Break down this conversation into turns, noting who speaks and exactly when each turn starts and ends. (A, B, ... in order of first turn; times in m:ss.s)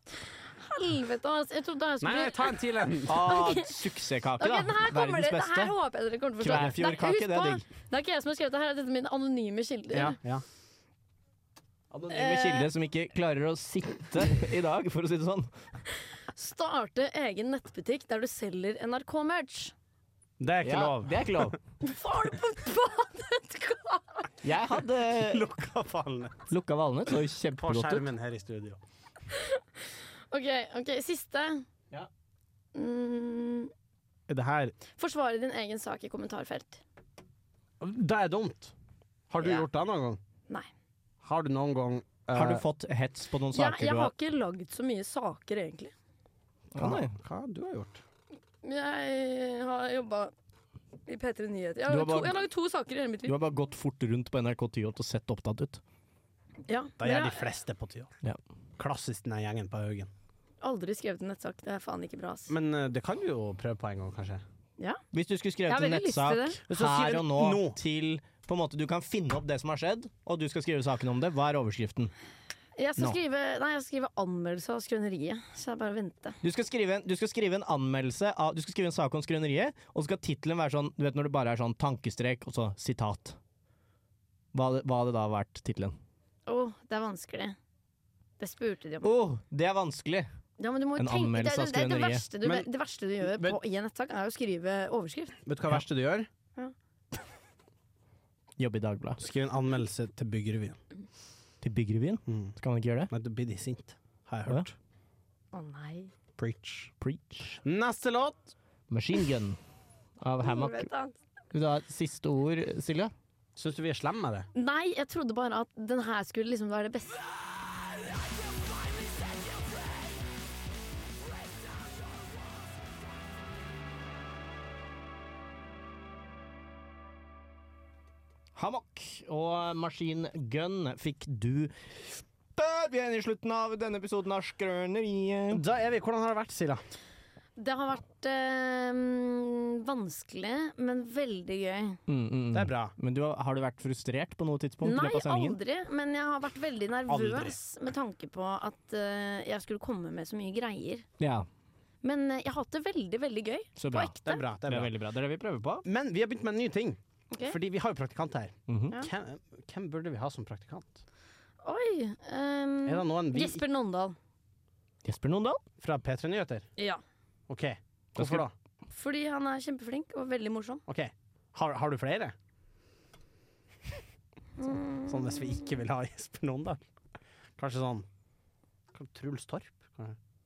0:00.2-0:03.8 A
0:02.0-0:03.2 B
0:03.1-0:05.8 C
0:04.4-0:10.2 A
0:06.4-0:07.6 C
0:09.9-0:10.4 B
0:12.1-0:15.5 C
0:12.1-0:12.7 A
0:16.4-0:19.7 A
0:20.4-0:21.6 B
0:20.6-0:21.6 C
0:21.8-0:24.3 A
0:24.4-0:25.5 C
0:25.2-0:26.4 B
0:26.5-0:28.1 C
0:27.6-0:28.8 B
0:29.3-0:29.6 A
0:30.3-0:31.6 A
0:32.8-0:33.7 A
0:34.3-0:34.8 B
0:35.0-0:36.8 A
0:37.8-0:38.7 B
0:39.3-0:40.2 B
0:39.4-0:39.7 A
0:41.2-0:42.6 B
0:42.3-0:44.1 C
0:43.5-0:45.9 A
0:46.7-0:47.2 C
0:46.8-0:48.0 B
0:48.6-0:50.3 A
0:51.1-0:53.4 A
0:51.9-0:52.5 C
0:53.2-0:55.8 C
0:56.7-0:57.6 A
0:57.0-0:58.1 B
0:58.8-1:00.1 B
1:00.6-1:02.5 A
1:02.5-1:04.4 B
1:05.1-1:12.1 C
1:05.7-1:06.6 A
1:06.7-1:07.8 B
1:12.8-1:16.4 A
1:16.4-1:23.4 C
1:24.5-1:26.0 C
1:26.5-1:27.6 A
1:28.4-1:29.1 A
1:29.0-1:30.3 C
1:30.6-1:35.4 A
1:31.0-1:32.3 C
1:32.4-1:32.7 B
1:33.2-1:33.6 B
1:35.5-1:36.3 B
1:38.6-1:39.2 C
1:39.2-1:40.8 B
1:41.6-1:43.1 C
1:42.3-1:42.5 B
1:43.1-1:44.8 B
1:45.5-1:46.1 A
1:46.4-1:46.9 B
1:47.0-1:47.6 C
1:47.6-1:48.5 B
1:48.9-1:49.6 C
1:50.2-1:50.9 C
1:50.4-1:51.2 A
1:51.5-1:53.1 C
1:53.6-1:54.5 B
1:54.6-1:57.2 A
2:08.6-2:15.6 C
2:15.5-2:16.8 B
2:17.6-2:22.0 A
2:22.1-2:25.6 C
2:22.5-2:22.9 B
2:24.8-2:31.0 A
2:27.1-2:27.6 B
2:31.2-2:31.5 C
2:32.0-2:34.4 A
2:33.8-2:35.9 C
2:34.2-2:34.9 B
2:35.8-2:41.0 B
2:37.3-2:37.6 A
2:38.7-2:39.0 C
2:41.6-2:44.2 A
2:42.9-2:43.6 B
2:45.0-2:45.6 C
2:45.8-2:46.7 B
2:46.8-2:47.0 A
2:47.5-2:48.5 B
2:48.2-2:48.4 C
2:48.9-2:50.8 A
2:50.9-2:52.4 B
2:54.6-2:55.5 A
2:55.1-2:56.8 B
2:57.6-2:58.1 B
2:58.9-3:00.2 B